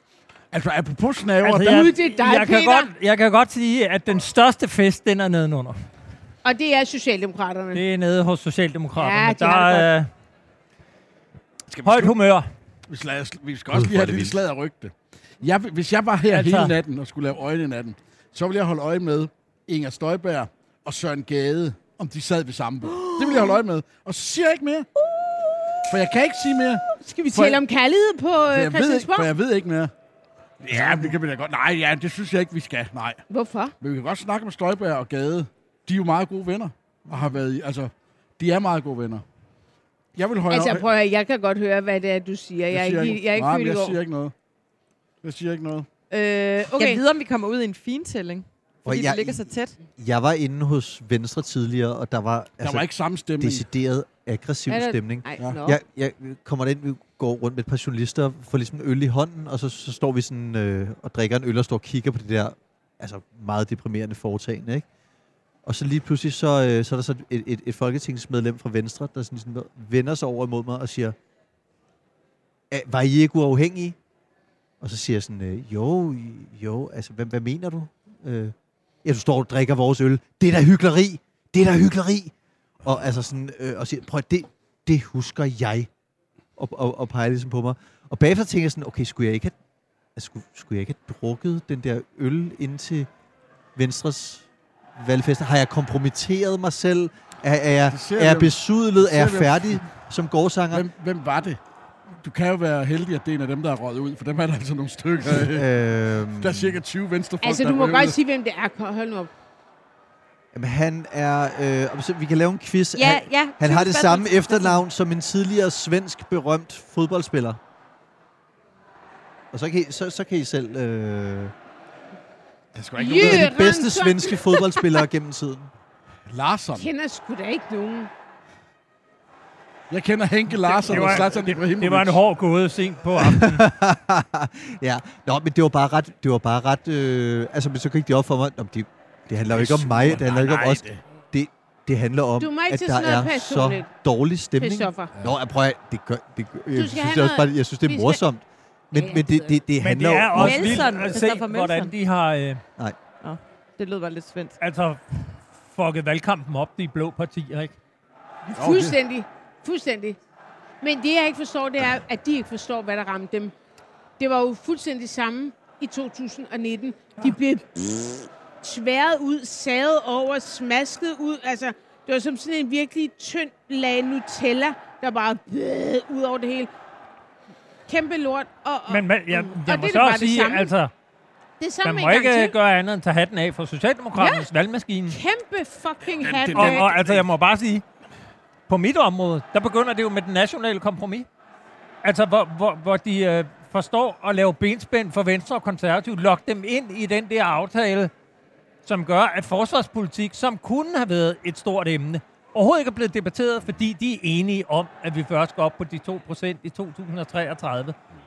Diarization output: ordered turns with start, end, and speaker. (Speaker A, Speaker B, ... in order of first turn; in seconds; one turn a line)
Speaker A: 0.5-1.8
Speaker B: 1.4-5.8
Speaker C: 1.5-2.9
Speaker C: 6.4-7.8
Speaker B: 7.7-10.1
Speaker C: 8.9-9.9
Speaker A: 11.7-12.2
Speaker B: 11.8-12.5
Speaker A: 12.9-24.9
Speaker D: 13.7-14.4
Speaker B: 16.3-16.8
Speaker C: 23.0-23.5
Speaker C: 25.1-25.9
Speaker A: 25.9-27.6
Speaker C: 26.9-29.3
Speaker A: 28.5-29.9
Speaker A: 30.6-33.2
Speaker C: 33.3-33.7
Speaker A: 33.8-39.2
Speaker A: 40.1-40.9
Speaker C: 40.5-44.0
Speaker A: 42.7-44.3
Speaker A: 45.2-45.9
Speaker C: 46.1-47.0
Speaker E: 46.8-49.7
Speaker D: 48.8-52.9
Speaker A: 52.6-53.6
Speaker D: 53.4-64.8
Speaker C: 54.7-55.8
Speaker D: 65.6-71.2
Speaker D: 72.7-74.0
Speaker D: 74.8-82.3
Speaker D: 82.8-85.9
Speaker D: 86.6-89.5
Speaker D: 90.1-93.1
Speaker D: 93.7-94.5
Speaker D: 95.0-100.9
Speaker A: 97.8-99.9
Speaker A: 100.7-101.6
Speaker A: 102.2-105.7
Speaker D: 105.2-106.8
Speaker A: 106.3-108.2
Speaker C: 107.4-109.3
Speaker D: 110.5-117.6
Speaker E: 113.0-114.8
Speaker D: 119.5-121.5
Speaker A: 122.7-123.6
Speaker C: 123.0-125.0
Speaker D: 123.1-125.7
Speaker A: 126.3-126.9
Speaker C: 126.8-128.1
Speaker A: 129.9-132.2
Speaker C: 130.6-131.2
Speaker B: 130.7-133.6
Speaker D: 133.2-151.0
Speaker A: 139.5-141.0
Speaker C: 142.4-143.9
Speaker C: 144.6-145.1
Speaker C: 146.7-148.2
Speaker C: 148.9-149.6
Speaker B: 149.8-152.6
Speaker E: 150.3-151.9
Speaker E: 153.2-154.6
Speaker B: 154.6-155.0
Speaker B: 155.6-157.7
Speaker C: 158.5-160.2
Speaker A: 158.6-159.0
Speaker C: 160.8-163.5
Speaker C: 164.2-176.7
Speaker C: 177.9-180.7
Speaker B: 178.9-180.9
Speaker C: 181.6-182.6
Speaker B: 181.8-185.2
Speaker C: 184.2-184.5
Speaker C: 185.1-186.9
Speaker A: 186.1-187.3
Speaker B: 186.5-187.8
Speaker B: 188.7-191.3
Speaker B: 192.0-198.1
Speaker B: 198.8-207.9